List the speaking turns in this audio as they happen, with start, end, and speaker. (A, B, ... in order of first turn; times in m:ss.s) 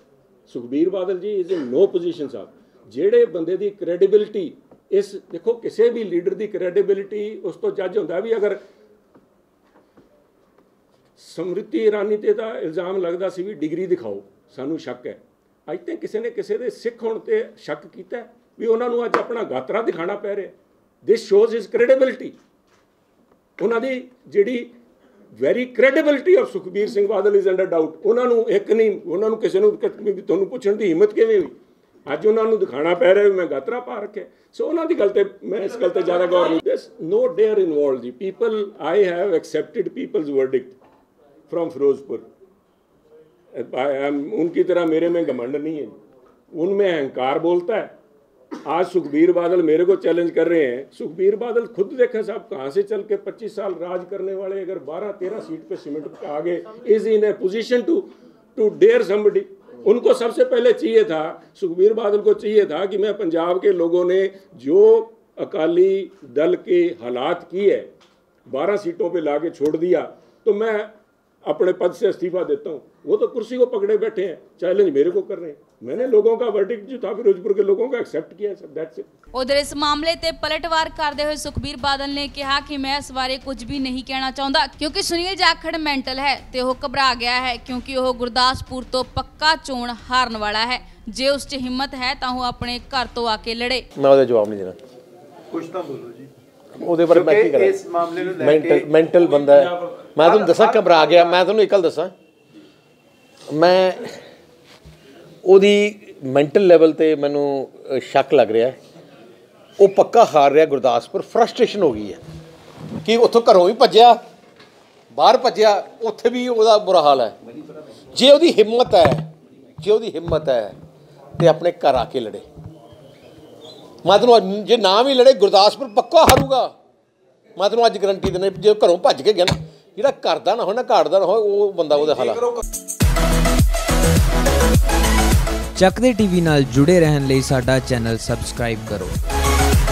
0:00.5-0:08.6 A
0:11.2-0:20.5 A
0:21.0-0:22.3 A
0:23.6-0:24.7 A
0:25.4-0:31.6 A
0:32.1-0:40.8 A
0:41.5-0:42.2 A
0:43.5-0:46.0 A
0:46.5-0:47.9 A
0:48.6-1:07.9 A
1:08.5-1:10.9 A
1:11.4-1:19.1 A
1:19.3-1:33.8 B
1:34.0-1:34.8 C
1:35.5-1:36.3 D
1:36.8-1:37.8 C
1:37.1-1:38.9 D
1:38.4-1:42.1 C
1:40.2-1:41.2 D
1:43.5-1:44.2 C
1:45.4-1:48.8 C
1:49.8-1:52.2 C
1:53.0-1:54.2 C
1:55.1-1:57.4 C
1:58.1-1:59.3 C
1:59.8-2:00.8 C
2:01.4-2:02.4 C
2:04.0-2:06.7 C
2:07.6-2:12.5 C
2:15.8-2:19.2 E